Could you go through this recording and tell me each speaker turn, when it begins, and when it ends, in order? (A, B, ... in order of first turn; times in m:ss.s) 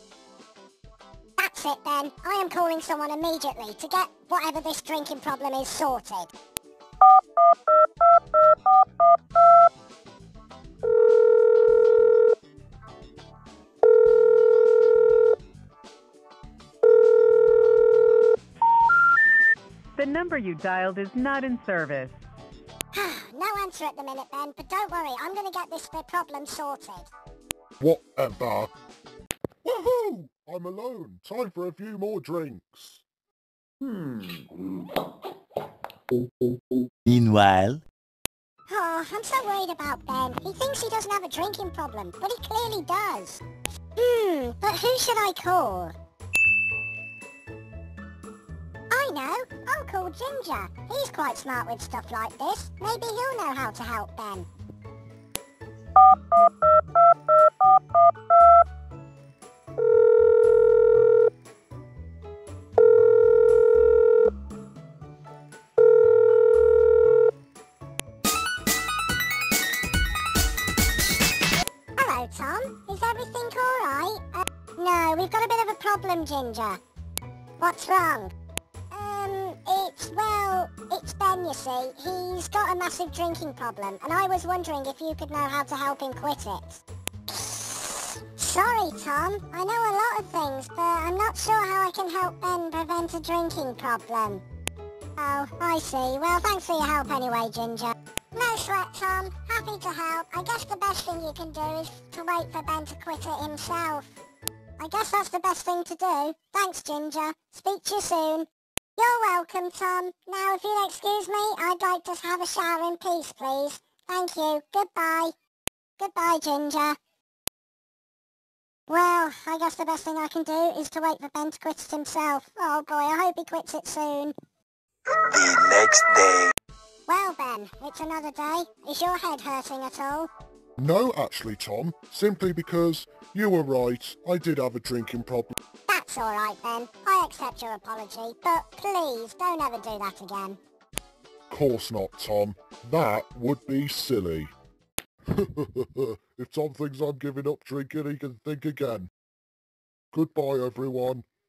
0:01.4-0:06.3 A
0:20.0-0:22.1 B
0:22.9-0:27.1 A
0:27.8-0:28.7 C
0:29.6-0:33.0 C
0:37.1-0:37.8 D
0:38.7-0:43.4 A
0:44.0-0:46.0 A
0:48.9-0:54.5 A
1:12.0-1:16.8 A
1:17.6-1:18.3 A
1:18.9-1:34.4 A
1:35.2-1:44.1 A
1:44.8-1:55.3 A
1:56.0-1:57.0 A
1:58.9-2:04.3 A
2:05.3-2:06.5 D
2:07.1-2:10.3 A
2:10.8-2:15.5 C
2:15.9-2:20.6 A
2:21.5-2:24.5 C
2:25.3-2:29.1 C
2:30.1-2:31.2 C